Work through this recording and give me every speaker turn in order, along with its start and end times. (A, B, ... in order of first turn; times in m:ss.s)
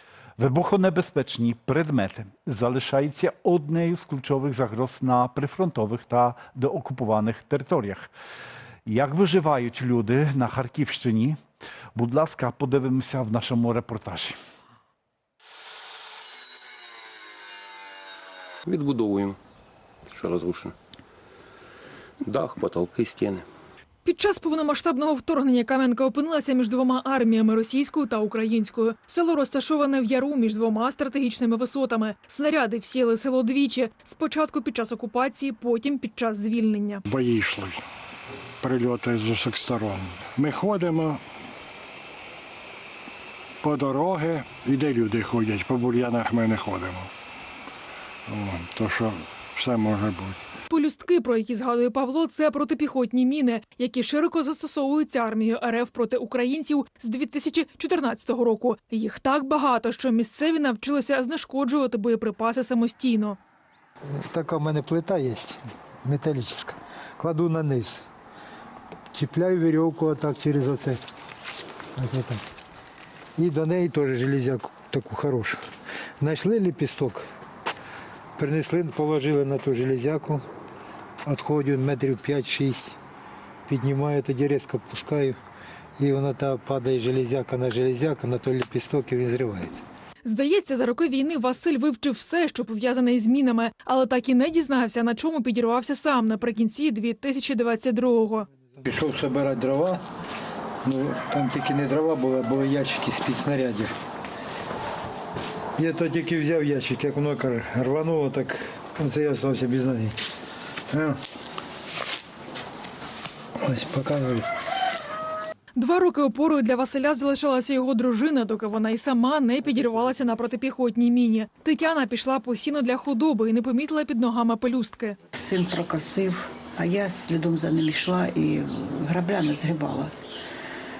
0:00.4-0:08.1 A
0:08.8-0:11.4 A
0:11.9-0:14.4 A
0:18.6-0:19.4 B
0:20.1-0:20.8 B
0:22.2-0:23.4 B
0:24.0-0:37.0 C
0:37.0-0:37.8 D
0:38.6-0:41.2 D
0:43.6-0:47.1 D
0:48.3-0:50.5 D
0:50.7-1:03.4 C
1:04.1-1:08.0 E
1:09.1-1:11.0 E
1:12.0-1:12.4 E
1:13.4-1:15.6 E
1:16.2-1:17.2 E
1:18.4-1:20.4 E
1:21.2-1:23.0 E
1:23.7-1:25.4 E
1:26.0-1:29.8 E
1:30.2-1:38.5 C
1:38.8-1:40.0 E
1:40.8-1:43.9 E
1:45.8-1:50.2 E
1:50.9-1:51.2 E
1:53.6-1:54.5 E
1:55.7-2:05.2 C
2:05.3-2:10.1 F